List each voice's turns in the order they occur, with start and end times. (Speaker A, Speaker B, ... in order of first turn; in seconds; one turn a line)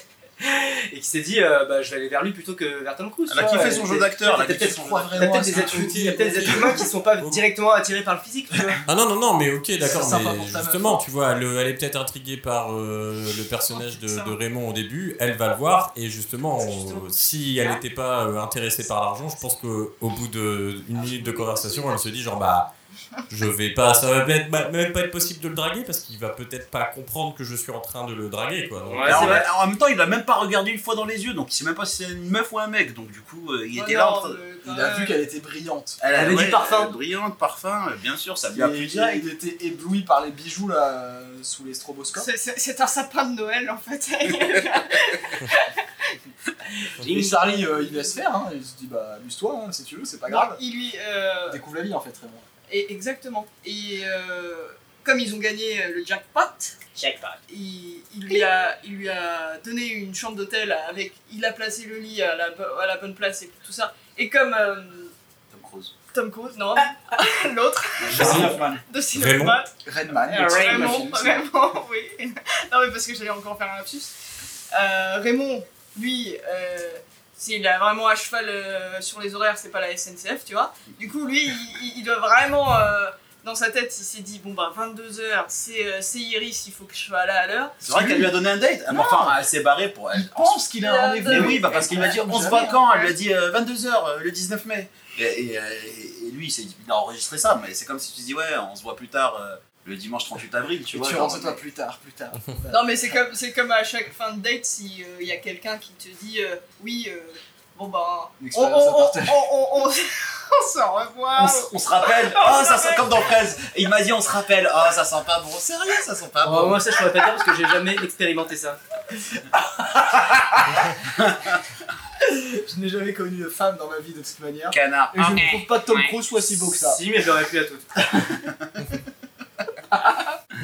Speaker A: 0.4-8.8
Speaker B: 3.3-6.0
Speaker C: 3.4-6.9
Speaker D: 8.9-22.7
Speaker C: 9.8-11.0
Speaker E: 13.8-14.3
Speaker A: 16.6-17.1
Speaker E: 21.0-21.9
Speaker D: 23.3-29.4
Speaker A: 28.9-29.5
Speaker B: 29.0-34.4
Speaker E: 33.7-35.2
Speaker C: 34.6-36.0
Speaker B: 36.0-39.3
Speaker A: 36.1-36.9
Speaker C: 38.5-42.3
Speaker E: 42.1-46.1
Speaker A: 47.0-47.7
Speaker C: 47.0-50.6
Speaker E: 50.3-51.6
Speaker C: 51.5-52.5
Speaker E: 52.7-56.8
Speaker A: 56.9-57.4
Speaker E: 57.5-65.1
Speaker B: 65.5-65.9
Speaker E: 66.1-69.7
Speaker B: 68.0-68.8
Speaker D: 68.1-68.5
Speaker D: 69.1-69.6
Speaker C: 69.8-71.5
Speaker E: 70.3-74.1
Speaker A: 70.4-70.9
Speaker E: 74.7-87.8
Speaker B: 87.8-90.6
Speaker C: 87.8-88.3
Speaker C: 88.9-89.3
Speaker C: 90.1-92.8
Speaker E: 90.8-92.2
Speaker B: 91.2-101.6
Speaker E: 92.7-93.1
Speaker C: 100.9-103.1
Speaker E: 102.7-113.1
Speaker C: 108.4-109.5
Speaker B: 111.3-116.8
Speaker A: 116.4-118.8
Speaker C: 119.5-120.8
Speaker B: 121.1-121.5
Speaker C: 122.2-127.0
Speaker B: 124.7-126.1
Speaker A: 126.6-127.9
Speaker C: 128.0-128.5
Speaker C: 129.9-130.2